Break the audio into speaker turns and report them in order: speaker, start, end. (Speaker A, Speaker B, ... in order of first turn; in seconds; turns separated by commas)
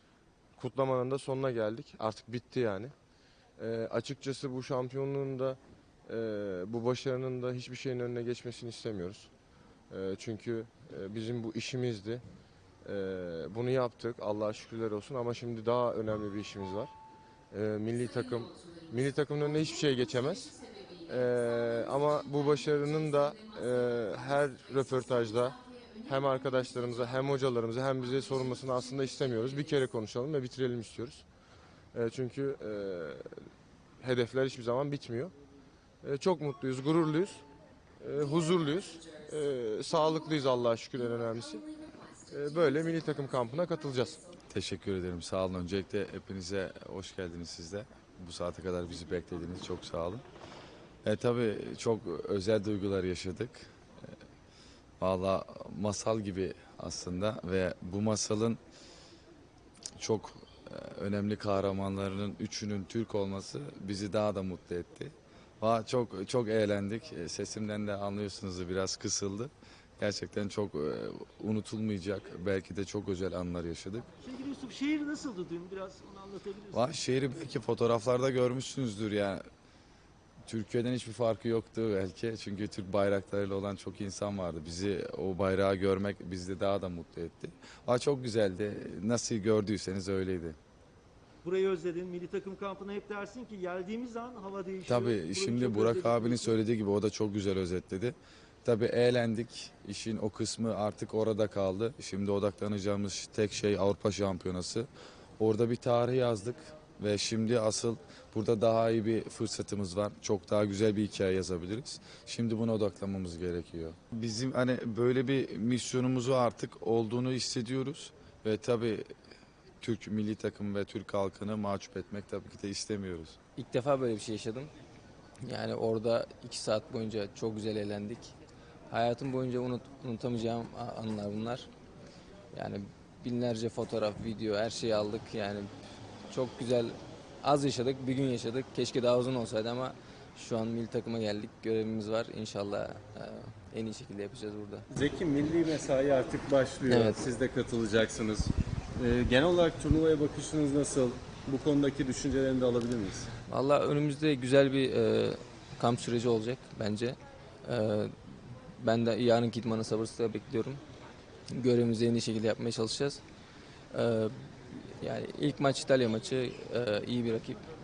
Speaker A: 0.6-2.9, Speaker A: 3.6-9.3, Speaker A: 9.9-12.2, Speaker A: 12.8-16.9, Speaker A: 17.5-20.5, Speaker A: 21.1-31.2, Speaker A: 31.9-33.3, Speaker A: 34.0-35.3, Speaker A: 36.0-37.4, Speaker A: 38.0-41.7, Speaker A: 42.3-44.2, Speaker B: 44.5-50.2, Speaker B: 51.0-53.7, Speaker B: 55.0-58.6, Speaker B: 60.0-74.1, Speaker C: 74.2-76.9, Speaker B: 76.7-79.4, Speaker B: 80.5-90.6, Speaker C: 91.4-96.5, Speaker B: 94.9-119.1, Speaker B: 119.8-123.3, Speaker D: 123.5-124.7, Speaker D: 125.4-128.3, Speaker D: 128.9-131.7, Speaker D: 132.5-135.7, Speaker D: 136.3-144.9, Speaker E: 144.9-153.3, Speaker D: 146.9-147.2, Speaker D: 153.5-160.8, Speaker D: 161.5-163.2, Speaker D: 163.9-167.6